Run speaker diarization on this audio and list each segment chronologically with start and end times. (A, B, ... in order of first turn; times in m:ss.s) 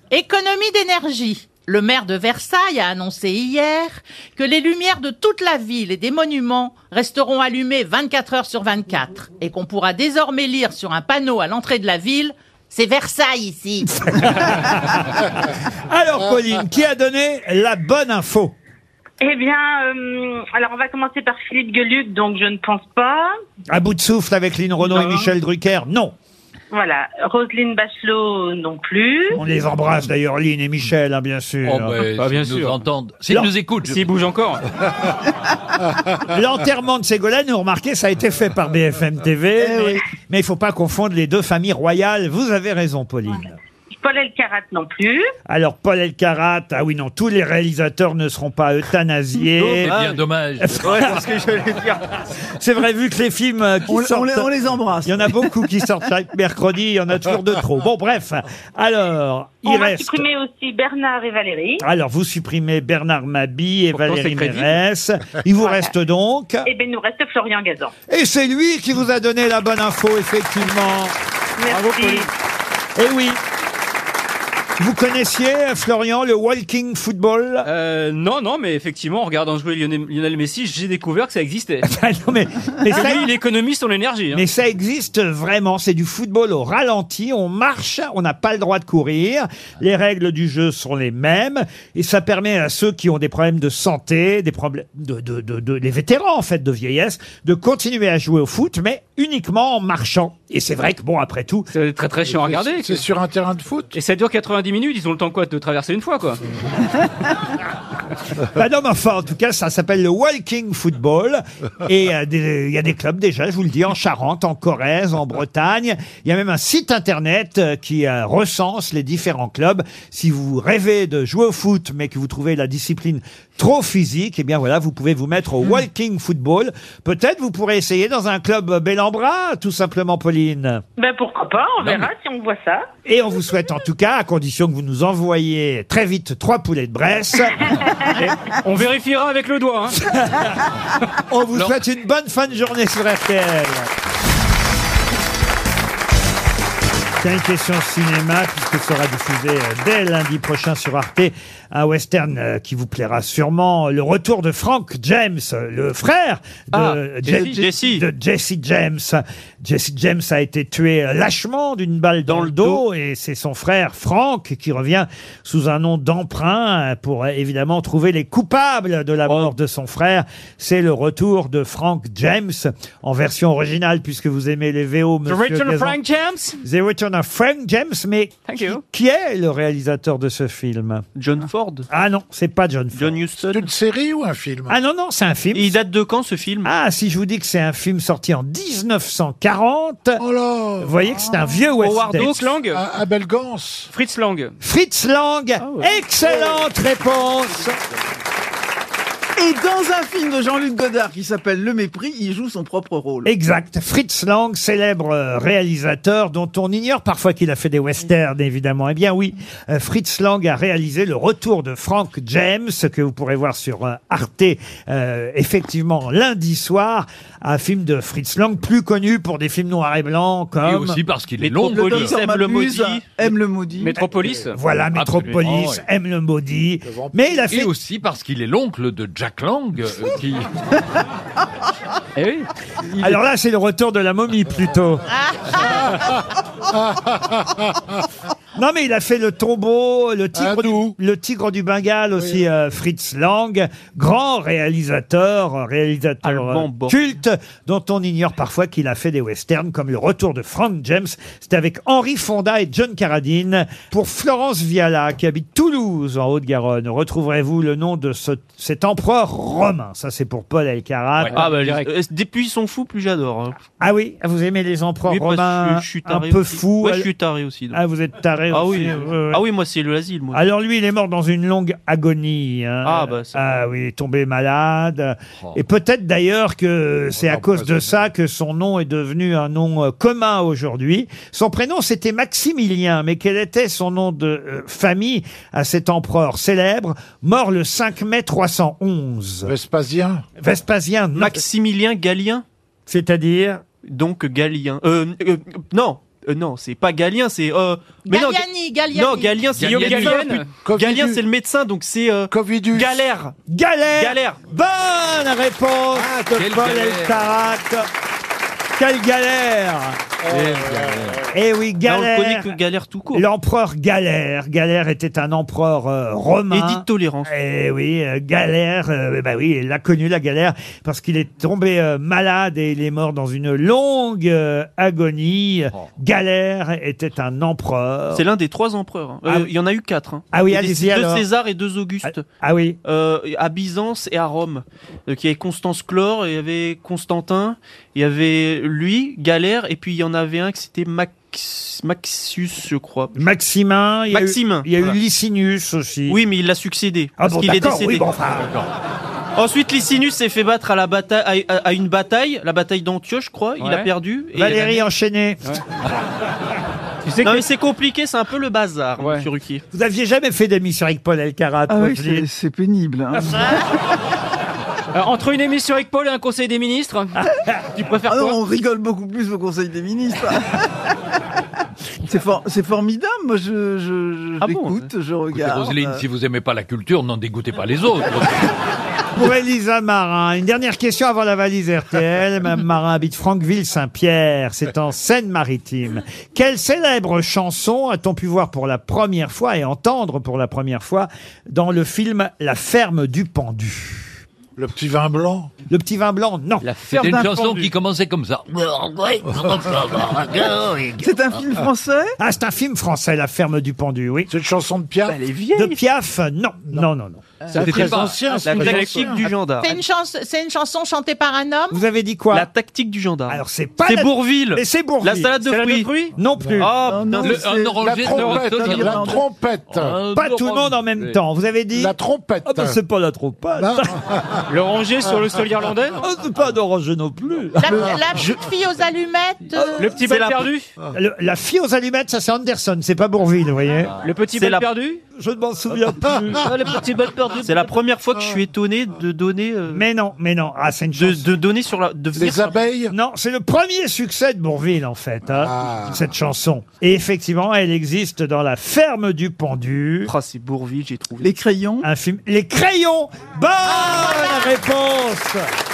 0:00.1-0:14.0 A
0:14.0-0:15.3 B
0:15.9-0:18.6 B
0:19.2-0:23.3 C
0:23.7-0:26.1 B
0:26.7-0:29.4 C
0:29.4-0:32.0 B
0:31.6-0:34.1 D
0:32.0-0:32.8 E
0:33.8-0:34.6 E
0:36.3-0:43.6 B
0:39.6-0:40.0 F
0:43.9-0:45.3 C
0:45.5-0:49.9 B
0:49.6-0:51.3 D
0:49.9-0:50.2 G
0:50.8-0:52.0 G
0:52.6-0:54.5 B
0:53.9-0:55.5 F
0:55.0-1:00.2 B
0:59.6-1:01.8 C
1:01.8-1:06.7 B
1:03.9-1:04.7 E
1:05.6-1:05.9 C
1:06.6-1:07.9 C
1:08.1-1:11.2 B
1:11.6-1:12.3 C
1:11.7-1:12.3 E
1:13.0-1:13.4 B
1:14.8-1:17.7 B
1:17.6-1:21.9 E
1:21.8-1:23.3 B
1:22.9-1:24.4 E
1:24.3-1:41.7 B
1:41.7-1:43.0 E
1:42.3-1:43.9 H
1:43.9-1:46.4 E
1:48.5-2:10.8 B
2:11.0-2:12.9 C
2:11.8-2:12.1 D
2:13.1-2:17.7 B
2:17.6-2:18.1 C
2:18.2-2:20.0 E
2:20.1-2:20.5 B
2:21.3-2:23.9 B
2:27.2-2:56.0 B
2:36.8-2:38.1 G
2:37.2-2:37.6 E
2:42.3-2:42.8 G
2:55.3-2:56.6 E
2:56.6-3:01.1 B
2:58.5-2:58.8 E
3:01.2-3:01.9 G
3:01.9-3:03.2 B
3:02.9-3:03.7 G
3:03.4-3:04.8 H
3:04.7-3:05.8 B
3:05.5-3:06.7 G
3:06.6-3:10.2 B
3:10.2-3:11.0 H
3:10.8-3:12.5 B
3:11.8-3:12.8 E
3:12.7-3:13.9 H
3:13.9-3:14.6 E
3:14.6-3:17.8 B
3:19.4-3:23.3 F
3:23.2-3:41.0 B
3:40.6-3:42.2 D
3:41.4-3:43.3 G
3:41.6-3:43.9 F
3:43.8-3:44.6 E
3:44.5-3:47.7 B
3:44.9-3:45.8 D
3:46.8-3:47.3 H
3:47.5-3:50.5 D
3:52.2-3:53.2 E
3:53.0-3:55.0 B
3:55.1-3:56.0 A
3:56.7-3:57.8 H
3:58.6-4:21.4 B
4:00.4-4:01.0 H
4:06.2-4:07.0 G
4:21.2-4:21.5 D
4:21.3-4:23.6 G
4:21.4-4:21.9 E
4:23.8-4:27.1 B
4:25.1-4:27.8 G
4:27.7-4:29.4 B
4:28.5-4:30.4 G
4:30.3-4:49.5 B
4:32.8-4:33.6 G
4:37.2-4:38.0 H
4:49.5-4:50.2 H
4:50.4-4:51.4 B
4:51.2-4:52.4 G
4:52.9-4:53.6 B
4:53.8-5:03.4 G
4:58.1-4:59.4 A
4:59.6-5:00.0 D
4:59.6-5:00.5 E
5:00.6-5:01.2 H
5:02.3-5:03.1 H
5:03.5-5:07.9 B
5:04.0-5:04.4 G
5:06.2-5:07.3 D
5:08.8-5:10.0 B
5:10.2-5:11.2 H
5:10.3-5:11.2 D
5:11.3-5:12.6 B
5:11.8-5:13.3 G
5:13.1-5:28.2 B
5:16.5-5:17.3 G
5:28.1-5:32.3 G
5:30.3-5:31.2 B
5:32.1-5:32.8 B
5:32.8-5:43.3 G
5:43.2-5:46.2 B
5:44.1-5:45.0 G
5:46.1-5:48.1 G
5:47.2-5:48.6 B
5:48.4-5:48.7 D
5:49.4-5:54.9 G
5:53.6-5:53.9 E
5:54.3-5:55.4 B
5:57.0-5:57.4 E
5:57.2-5:59.6 G
5:59.0-5:59.3 E
5:59.7-6:02.3 B
6:01.7-6:03.5 F
6:04.9-6:07.2 E
6:07.8-6:08.4 E
6:08.1-6:10.7 F
6:12.0-6:16.0 F
6:14.4-6:14.9 G
6:15.3-6:18.5 D
6:19.2-6:34.2 B
6:34.6-6:35.5 H
6:35.7-6:36.6 B
6:36.8-6:37.6 F
6:36.8-6:40.8 D
6:36.9-6:37.6 E
6:39.3-6:39.9 H
6:41.0-6:42.2 F
6:42.2-6:44.3 B
6:44.3-6:45.2 H
6:45.1-6:45.8 G
6:45.5-6:47.2 B
6:47.5-6:48.2 D
6:47.5-6:49.2 E
6:47.6-6:49.3 H
6:48.4-6:49.8 G
6:49.6-6:51.8 A
6:51.7-6:52.5 B
6:52.3-6:56.0 G
6:53.3-6:55.3 B
6:55.4-6:56.2 E
6:56.2-6:56.7 B
6:56.3-6:56.7 H
6:56.6-6:57.5 G
6:56.9-6:59.2 F
6:57.2-6:59.2 D
6:57.8-7:00.0 H
6:58.1-6:58.7 E
6:59.7-7:01.2 D
7:00.1-7:01.9 B
7:01.7-7:02.8 H
7:02.4-7:04.0 B
7:03.6-7:04.4 H
7:04.5-7:06.0 E
7:06.0-7:07.9 B
7:07.6-7:09.9 A
7:09.8-7:10.7 E
7:09.9-7:10.5 G
7:10.9-7:13.9 B
7:14.0-7:15.0 E
7:14.3-7:14.7 G
7:15.2-7:16.5 B
7:16.0-7:17.7 E
7:17.4-7:19.8 G
7:19.7-7:21.3 B
7:21.0-7:22.7 G
7:22.2-7:22.9 H
7:22.9-7:30.1 B
7:25.4-7:26.1 H
7:30.0-7:31.3 G
7:31.2-7:31.9 F
7:31.8-7:35.5 B
7:33.7-7:34.5 A